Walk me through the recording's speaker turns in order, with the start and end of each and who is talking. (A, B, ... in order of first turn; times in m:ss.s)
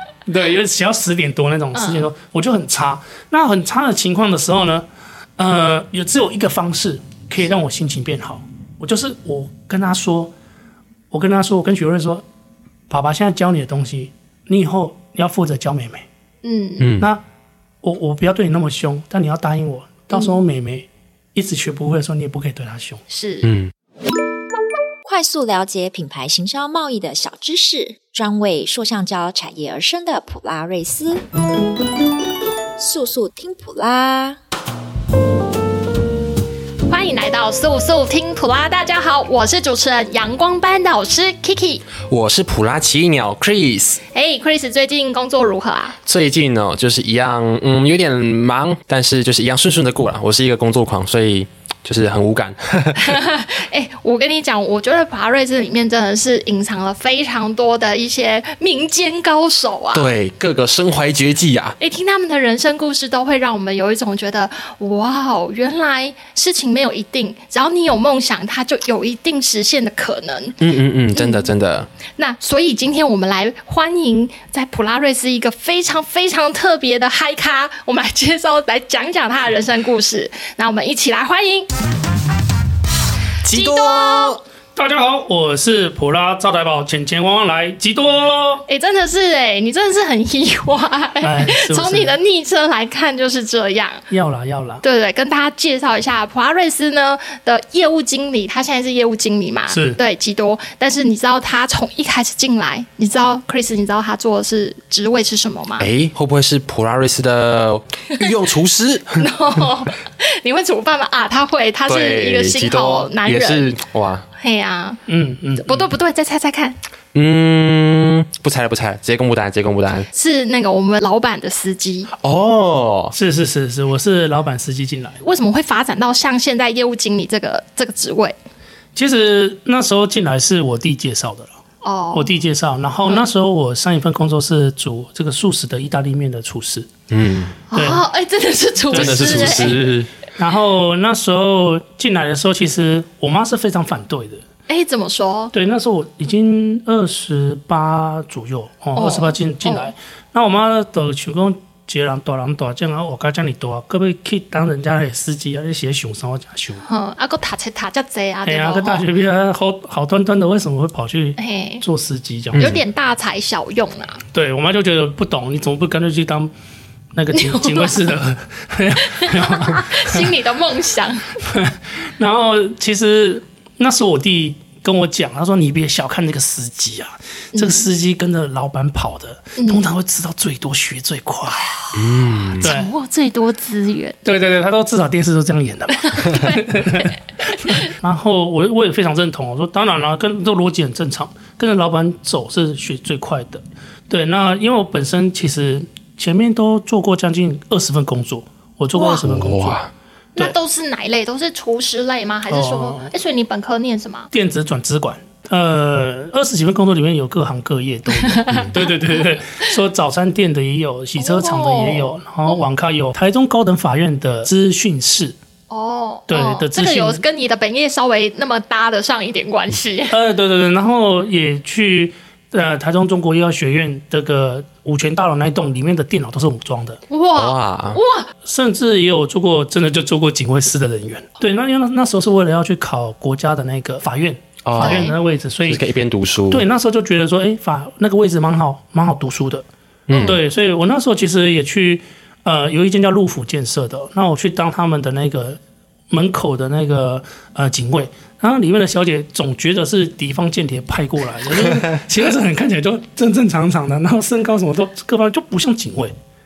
0:00.2-0:04.9 A
0:01.8-0:02.1 B
0:05.4-0:10.3 A
0:11.1-0:12.2 A
0:12.9-0:16.1 A
0:16.4-0:16.9 B
0:16.8-0:17.1 C
0:17.0-0:17.2 A
0:17.8-0:23.0 A
0:23.1-0:23.5 B
0:23.4-0:23.7 C
0:25.0-0:31.2 D
0:32.8-0:34.4 D
0:36.9-0:41.8 B
0:42.1-0:44.0 C
0:44.1-0:46.0 B
0:46.0-0:53.2 C
0:53.0-1:00.1 B
0:59.9-1:01.8 C
1:01.8-1:11.5 B
1:10.6-1:11.9 C
1:12.2-1:21.7 B
1:23.4-1:24.4 C
1:23.5-1:24.4 B
1:24.8-1:28.6 A
1:28.7-1:34.1 B
1:31.2-1:32.2 A
1:34.1-1:34.8 A
1:34.8-1:45.9 B
1:39.7-1:40.0 A
1:45.8-1:49.3 C
1:49.2-1:53.7 B
1:51.9-1:54.3 C
1:54.4-1:55.0 B
1:55.1-1:55.8 A
1:55.6-1:56.8 B
1:57.1-2:00.1 C
2:00.1-2:02.1 B
2:02.1-2:03.1 C
2:03.1-2:05.2 A
2:05.2-2:08.4 B
2:08.9-2:11.6 A
2:11.8-2:12.3 B
2:12.1-2:16.9 A
2:17.1-2:17.6 C
2:17.7-2:19.9 B
2:17.7-2:18.0 A
2:18.9-2:24.4 A
2:18.9-2:20.1 C
2:24.7-2:25.5 B
2:25.5-2:36.9 A
2:29.0-2:29.9 B
2:36.8-2:39.0 B
2:38.4-2:42.7 A
2:41.4-2:41.8 B
2:42.5-2:42.8 C
2:42.5-2:44.2 B
2:44.3-2:46.5 A
2:47.1-2:50.3 A
2:47.3-2:48.1 B
2:49.2-2:51.4 B
2:51.4-3:01.7 A
2:57.5-2:57.8 B
2:59.6-2:59.8 B
3:01.9-3:02.7 C
3:02.6-3:04.2 B
3:02.6-3:02.9 A
3:04.2-3:19.8 A
3:06.1-3:07.1 B
3:18.9-3:19.3 B
3:19.3-3:19.9 C
3:20.4-3:24.3 B
3:22.5-3:23.1 A
3:24.3-3:35.4 A
3:28.2-3:28.9 B
3:31.2-3:32.6 B
3:35.7-3:40.1 B
3:36.3-3:37.2 A
3:40.1-3:47.0 A
3:47.1-3:48.3 B
3:47.3-3:48.0 C
3:48.4-3:55.8 A
3:54.6-3:56.6 C
3:54.8-3:55.2 B
3:56.5-3:59.7 A
4:00.1-4:00.4 C
4:00.1-4:00.4 B
4:00.2-4:05.6 A
4:06.1-4:16.1 A